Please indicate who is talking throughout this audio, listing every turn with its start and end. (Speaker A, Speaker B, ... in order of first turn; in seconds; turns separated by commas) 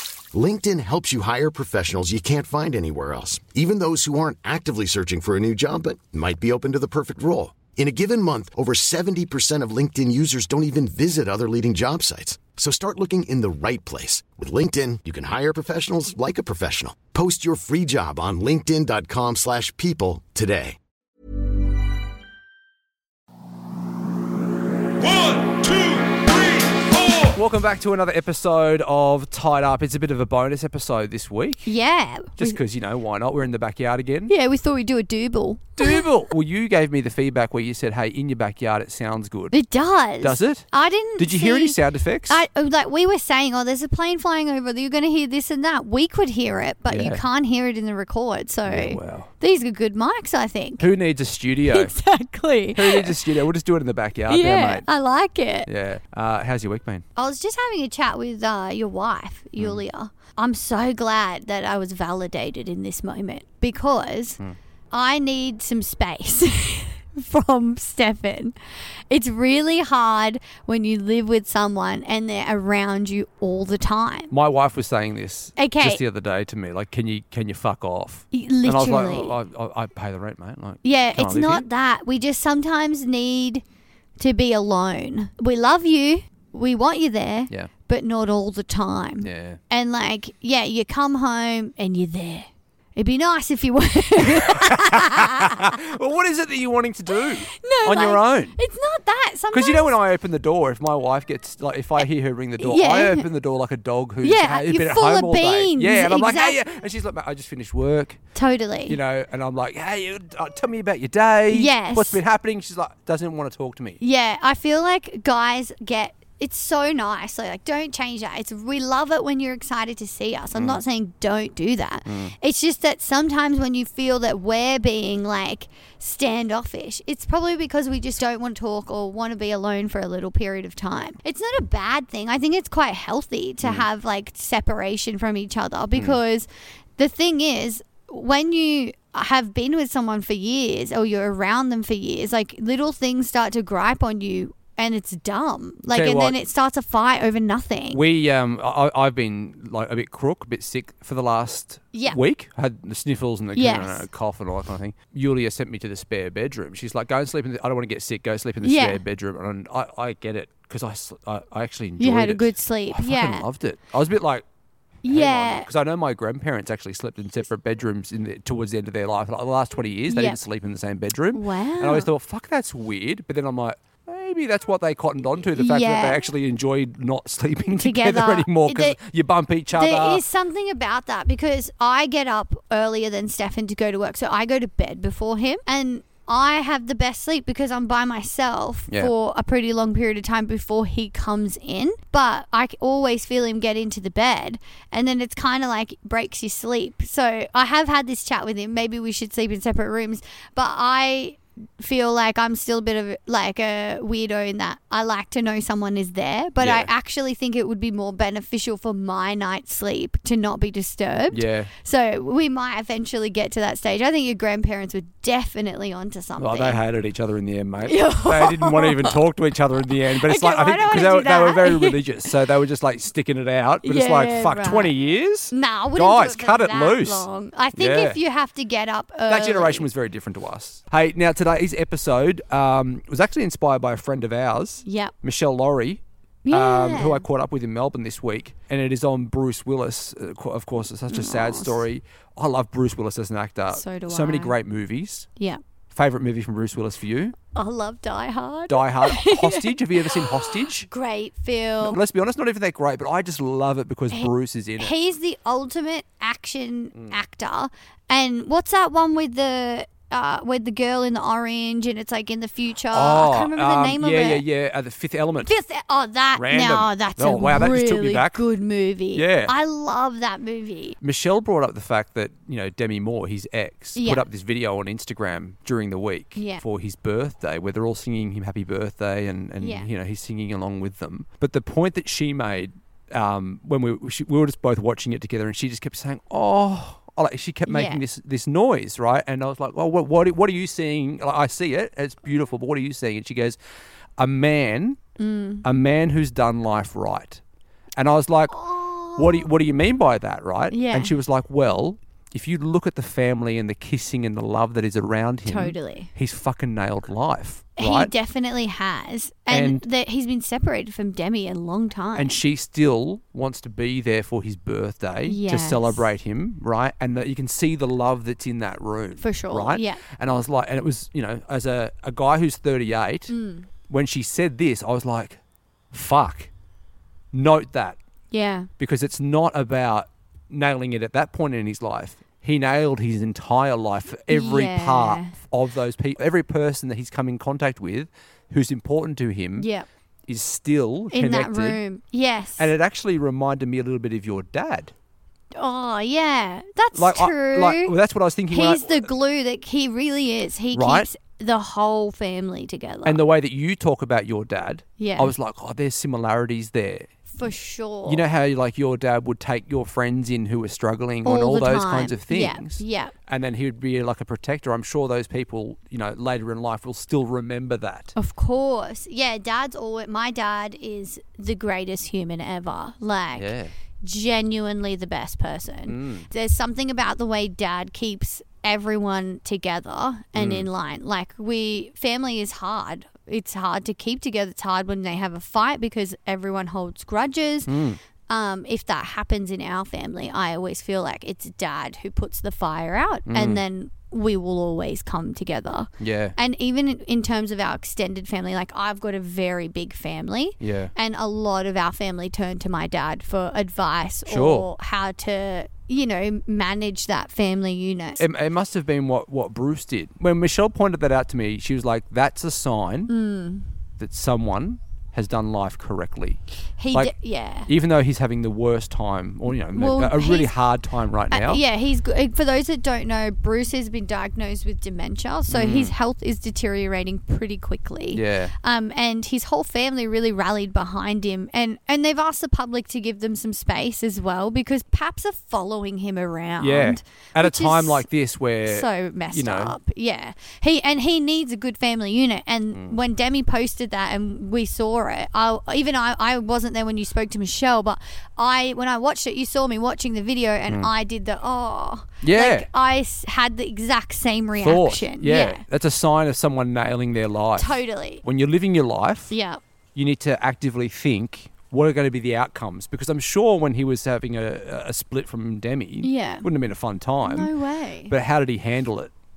Speaker A: 0.3-20.8, Speaker B: 27.0-31.8, Speaker C: 31.7-32.6, Speaker B: 32.4-34.3, Speaker C: 34.3-36.1, Speaker B: 35.8-39.6, Speaker C: 39.5-50.9, Speaker B: 40.2-42.4, Speaker B: 46.9-47.3, Speaker B: 48.7-49.3, Speaker B: 50.8-52.0, Speaker C: 51.6-53.4, Speaker B: 52.7-54.9, Speaker C: 54.3-55.7, Speaker B: 55.6-57.0, Speaker C: 57.2-64.4, Speaker C: 64.9-68.6, Speaker C: 69.1-74.3, Speaker B: 74.3-81.7, Speaker C: 75.6-76.0, Speaker C: 78.3-79.4, Speaker C: 80.8-83.6, Speaker C: 84.2-95.8, Speaker B: 89.2-89.6, Speaker B: 94.2-98.6, Speaker C: 97.4-100.0, Speaker B: 99.5-108.2, Speaker C: 102.6-103.3, Speaker C: 104.2-106.6, Speaker C: 108.3-109.0, Speaker B: 108.9-114.0, Speaker C: 111.5-112.2, Speaker C: 114.0-148.0, Speaker B: 120.5-120.8, Speaker B: 122.1-122.3, Speaker B: 133.6-133.9, Speaker B: 145.9-146.4, Speaker B: 147.9-164.4, Speaker C: 151.9-152.2, Speaker C: 153.5-154.1, Speaker C: 158.6-159.0, Speaker C: 162.0-163.5, Speaker C: 165.0-165.7, Speaker B: 165.1-180.2, Speaker C: 170.1-170.4, Speaker C: 171.3-172.1, Speaker C: 175.5-176.2, Speaker C: 177.7-179.0, Speaker C: 179.7-216.8, Speaker B: 206.6-206.9, Speaker B: 211.3-211.7, Speaker B: 216.4-228.2, Speaker C: 217.8-219.1, Speaker C: 220.1-222.0, Speaker C: 223.8-224.9, Speaker C: 225.5-229.9, Speaker B: 229.3-245.3, Speaker C: 234.8-235.1, Speaker C: 236.5-237.3, Speaker C: 241.1-241.8, Speaker C: 243.7-244.6, Speaker B: 245.9-247.3, Speaker C: 247.5-252.0, Speaker B: 248.7-250.9, Speaker B: 251.8-254.9, Speaker C: 254.1-264.4, Speaker B: 262.9-265.6, Speaker C: 265.4-271.0, Speaker B: 266.4-268.4, Speaker B: 269.1-269.5, Speaker B: 271.0-293.6, Speaker C: 273.9-274.3, Speaker C: 276.4-276.6, Speaker C: 279.6-279.9, Speaker C: 287.7-288.0, Speaker B: 294.2-295.0, Speaker C: 295.2-295.7, Speaker B: 295.6-297.4, Speaker B: 298.0-308.1, Speaker C: 298.5-299.5, Speaker C: 300.7-301.1, Speaker C: 305.4-306.1, Speaker C: 307.8-312.4, Speaker B: 309.5-309.9, Speaker B: 312.1-323.3, Speaker C: 315.3-316.1, Speaker C: 319.2-320.1, Speaker C: 323.3-323.7, Speaker B: 323.9-325.4, Speaker B: 325.9-326.5, Speaker B: 327.3-328.0, Speaker C: 328.3-328.7, Speaker B: 328.8-339.7, Speaker C: 334.3-335.3, Speaker C: 339.6-339.9, Speaker B: 340.3-341.8, Speaker C: 341.1-342.7, Speaker B: 342.6-344.9, Speaker C: 345.6-347.9, Speaker B: 346.9-349.1, Speaker C: 348.5-353.2, Speaker B: 350.7-351.1, Speaker B: 353.1-357.1, Speaker C: 355.0-355.3, Speaker C: 357.3-358.3, Speaker B: 358.1-368.1, Speaker C: 361.2-363.1, Speaker C: 368.2-387.7, Speaker B: 373.4-373.7, Speaker B: 375.9-376.3, Speaker B: 380.4-380.7, Speaker B: 387.7-388.0, Speaker C: 388.3-408.3, Speaker B: 393.3-393.6, Speaker B: 396.0-396.4, Speaker B: 400.6-400.9, Speaker B: 404.3-404.7, Speaker B: 408.2-413.1, Speaker C: 413.1-413.7, Speaker B: 414.0-416.4, Speaker C: 416.8-417.7, Speaker B: 416.9-421.6, Speaker C: 419.7-420.6, Speaker C: 421.3-438.1, Speaker B: 425.5-425.9, Speaker B: 428.1-428.5, Speaker B: 436.6-439.8, Speaker C: 438.6-455.6, Speaker B: 452.2-452.7, Speaker B: 454.6-459.3, Speaker C: 457.6-458.2, Speaker C: 459.3-459.6, Speaker B: 459.9-467.5, Speaker C: 466.0-466.5, Speaker C: 467.2-468.1, Speaker B: 468.1-469.1